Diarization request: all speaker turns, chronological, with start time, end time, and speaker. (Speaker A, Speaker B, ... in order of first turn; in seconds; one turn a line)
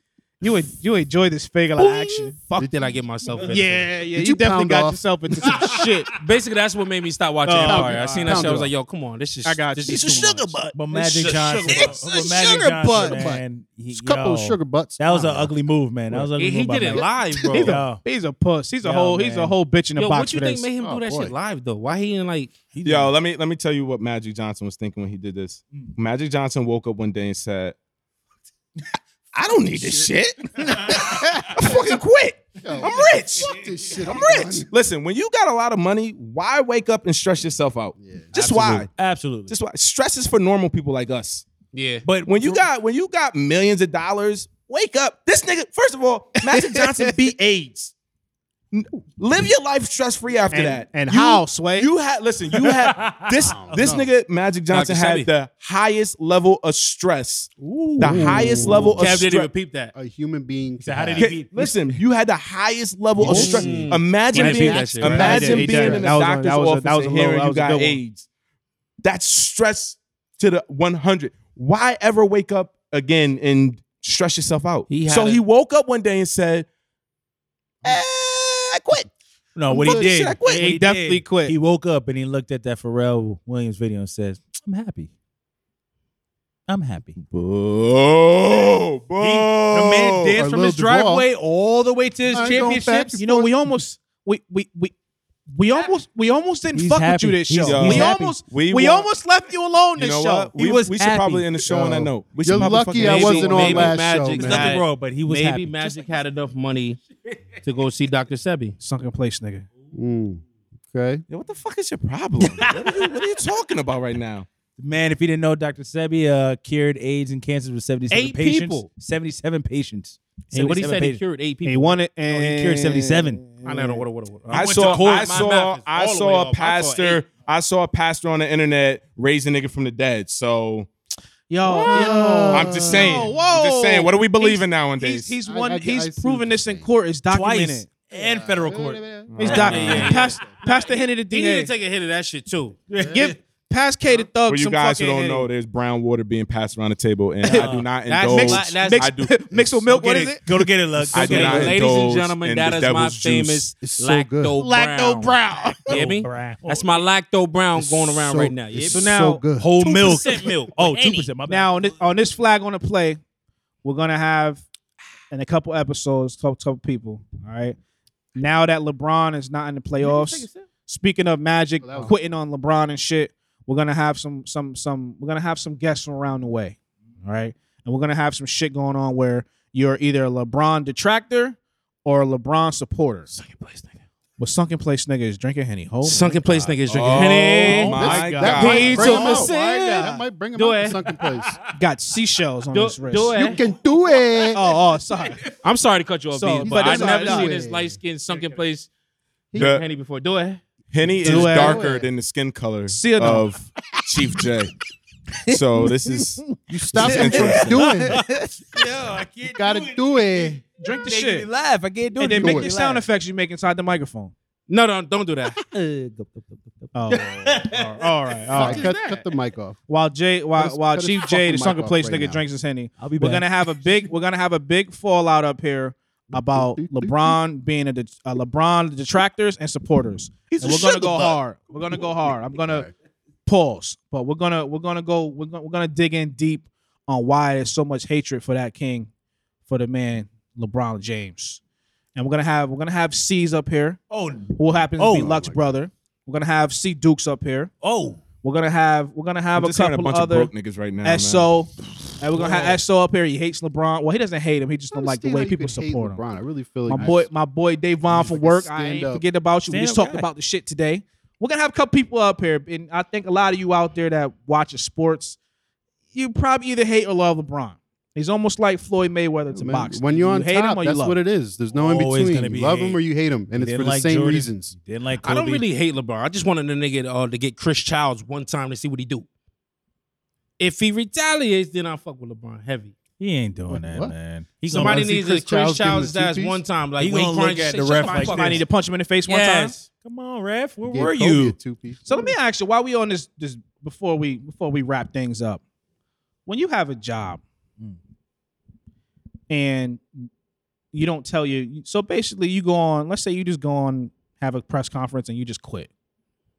Speaker A: 0.4-2.4
Speaker B: 1.8-3.9
Speaker C: 2.6-3.5
Speaker A: 3.5-6.1
Speaker C: 4.1-5.0
Speaker D: 5.4-6.2
Speaker B: 6.2-12.0
Speaker A: 7.5-8.7
Speaker C: 7.6-8.7
Speaker A: 9.4-10.6
Speaker E: 9.9-10.8
Speaker D: 10.7-18.0
Speaker A: 11.7-13.3
Speaker C: 12.9-15.6
Speaker B: 16.4-17.8
Speaker C: 16.9-17.6
Speaker A: 17.5-20.7
Speaker D: 18.8-19.6
Speaker B: 20.0-22.5
Speaker C: 20.8-21.3
Speaker D: 22.7-23.1
Speaker E: 22.8-27.8
Speaker E: 29.3-38.9
Speaker C: 29.8-30.1
Speaker C: 30.9-31.8
Speaker C: 32.6-34.7
Speaker C: 38.0-38.4
Speaker D: 38.3-39.5
Speaker E: 39.5-41.5
Speaker B: 41.7-42.1
Speaker D: 42.0-42.6
Speaker E: 42.2-47.9
Speaker A: 46.4-47.1
Speaker E: 48.7-59.5
Speaker A: 50.5-51.9
Speaker D: 52.5-54.0
Speaker C: 53.5-54.1
Speaker B: 54.7-55.3
Speaker D: 57.6-59.0
Speaker C: 58.0-59.0
Speaker B: 59.0-59.9
Speaker C: 59.9-61.4
Speaker D: 60.8-62.0
Speaker E: 61.2-68.3
Speaker B: 63.2-65.9
Speaker D: 63.2-64.0
Speaker A: 64.3-68.0
Speaker C: 64.5-66.2
Speaker E: 69.0-76.7
Speaker B: 74.9-75.4
Speaker E: 77.8-79.1
Speaker D: 79.6-85.1
Speaker E: 79.7-80.7
Speaker C: 79.7-80.1
Speaker A: 80.4-81.5
Speaker D: 86.7-87.2
Speaker E: 87.3-90.4
Speaker D: 89.2-93.2
Speaker A: 90.2-90.9
Speaker C: 90.3-91.3
Speaker C: 92.3-93.6
Speaker B: 92.3-92.7
Speaker A: 92.4-94.9
Speaker A: 95.5-100.5
Speaker D: 96.7-98.4
Speaker E: 97.6-99.1
Speaker E: 100.0-103.9
Speaker D: 100.6-101.6
Speaker C: 101.7-104.8
Speaker D: 102.5-102.8
Speaker B: 102.9-107.0
Speaker D: 103.6-106.2
Speaker B: 107.6-108.8
Speaker A: 108.8-109.7
Speaker C: 109.9-111.2
Speaker E: 111.3-114.5
Speaker D: 112.4-113.1
Speaker D: 114.8-121.2
Speaker B: 118.1-118.9
Speaker B: 120.5-122.0
Speaker A: 121.7-124.0
Speaker D: 122.3-123.5
Speaker B: 123.6-127.2
Speaker D: 124.5-125.6
Speaker E: 124.5-130.9
Speaker A: 131.5-137.9
Speaker C: 131.7-133.3
Speaker E: 132.5-135.3
Speaker C: 135.4-136.9
Speaker D: 137.3-140.2
Speaker C: 138.1-140.5
Speaker E: 139.3-140.1
Speaker A: 139.4-141.7
Speaker B: 139.7-142.8
Speaker D: 142.9-143.4
Speaker C: 143.0-143.3
Speaker A: 143.0-145.5
Speaker E: 144.5-149.8
Speaker A: 147.4-151.2
Speaker D: 147.5-147.9
Speaker B: 148.1-149.1
Speaker D: 149.9-151.8
Speaker E: 151.1-153.7
Speaker B: 151.2-155.4
Speaker C: 153.8-154.6
Speaker A: 154.6-156.0
Speaker D: 155.8-157.0
Speaker B: 155.9-159.0
Speaker C: 157.8-159.8
Speaker A: 158.9-159.4
Speaker D: 159.6-162.0
Speaker B: 159.8-161.3
Speaker A: 161.5-163.2
Speaker A: 163.8-164.7
Speaker A: 165.3-167.8
Speaker A: 168.4-183.3
Speaker B: 170.0-170.6
Speaker C: 171.8-172.2
Speaker B: 183.3-184.0
Speaker A: 184.4-190.2
Speaker B: 186.0-191.2
Speaker E: 186.9-189.1
Speaker C: 187.9-191.6
Speaker D: 188.9-189.3
Speaker D: 191.1-191.5
Speaker A: 191.7-193.4
Speaker B: 192.7-193.6
Speaker C: 193.3-194.6
Speaker A: 194.5-195.4
Speaker B: 195.6-198.9
Speaker A: 196.3-197.6
Speaker C: 196.7-198.0
Speaker D: 198.3-198.6
Speaker B: 199.5-200.6
Speaker E: 199.6-199.8
Speaker E: 200.9-204.7
Speaker C: 201.2-202.1
Speaker A: 201.2-201.8
Speaker A: 202.9-203.6
Speaker E: 205.5-208.0
Speaker D: 205.8-213.1
Speaker C: 206.7-208.3
Speaker C: 209.5-210.6
Speaker A: 210.8-211.5
Speaker A: 212.2-214.3
Speaker C: 212.3-212.8
Speaker B: 214.7-215.6
Speaker D: 215.6-218.9
Speaker A: 216.9-218.9
Speaker B: 217.1-217.8
Speaker C: 218.5-219.8
Speaker B: 218.6-219.3
Speaker A: 219.9-232.9
Speaker C: 220.6-222.4
Speaker D: 223.0-223.9
Speaker C: 226.3-227.4
Speaker E: 230.5-231.4
Speaker C: 232.6-232.9
Speaker A: 233.5-239.1
Speaker A: 239.7-241.6
Speaker A: 242.2-244.0
Speaker D: 244.1-245.4
Speaker A: 244.6-247.7
Speaker C: 245.1-245.6
Speaker D: 247.8-248.2
Speaker A: 248.4-256.2
Speaker E: 249.6-251.5
Speaker D: 252.4-252.8
Speaker C: 254.9-257.3
Speaker A: 256.9-265.4
Speaker C: 258.1-259.2
Speaker D: 259.7-260.3
Speaker A: 266.1-271.2
Speaker C: 269.5-274.8
Speaker D: 271.7-273.0
Speaker D: 273.5-275.6
Speaker B: 275.2-279.3
Speaker B: 280.6-283.0
Speaker D: 283.2-285.3
Speaker C: 283.7-284.1
Speaker C: 284.7-286.6
Speaker B: 284.7-288.6
Speaker D: 287.0-288.6
Speaker A: 288.0-289.8
Speaker B: 289.3-289.9
Speaker D: 289.9-291.6
Speaker C: 290.8-292.4
Speaker A: 292.1-295.6
Speaker A: 296.5-297.4
Speaker A: 299.5-300.3
Speaker A: 300.9-305.9